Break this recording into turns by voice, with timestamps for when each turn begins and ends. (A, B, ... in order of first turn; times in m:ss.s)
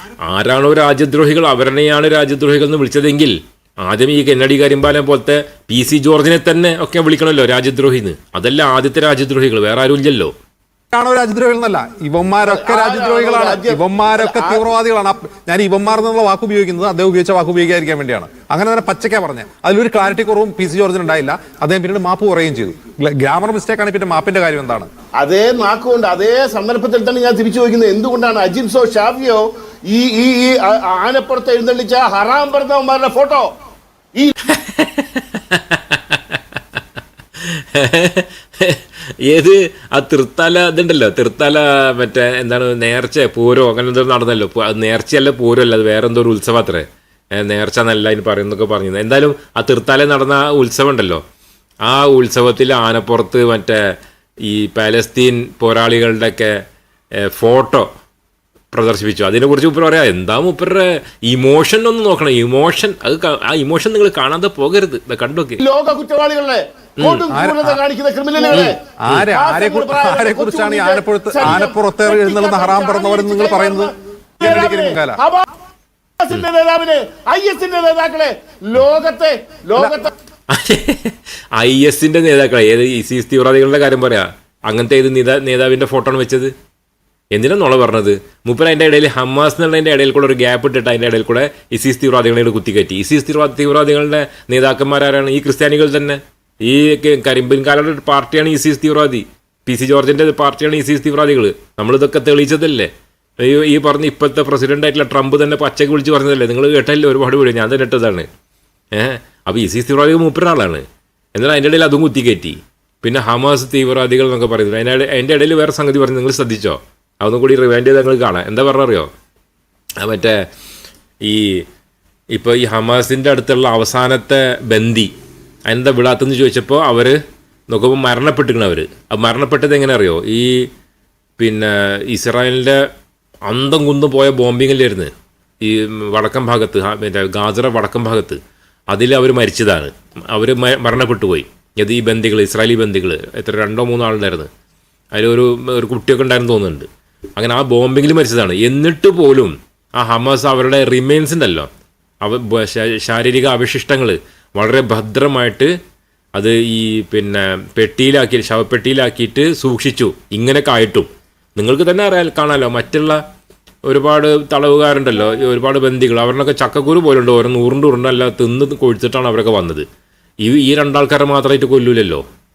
0:00.2-0:10.3 A
0:10.9-0:24.9 B
0:12.4-0:14.6 C
0:25.2-0:33.5 C
0:34.4-0:36.8 A
0:37.4-0:51.2 A
0:51.8-0:56.6 A
0:57.1-0:57.9 A
0:58.7-1:05.6 A
1:05.6-1:15.4 C
1:07.0-1:07.2 A
1:07.3-1:07.8 B
1:08.5-1:15.2 B
1:16.2-1:20.1 C
1:20.5-1:26.5 A
1:27.3-1:48.3 A
1:48.9-1:59.1 A
2:00.0-2:00.4 A
2:01.2-2:01.6 A
2:02.3-2:05.1 A
2:05.7-2:10.7 A
2:11.4-2:12.9 A
2:13.5-2:24.5 A
2:25.1-2:31.7 A
2:32.2-2:35.7 A
2:36.3-2:43.2 A
2:43.9-2:49.8 A
2:50.4-2:52.2 A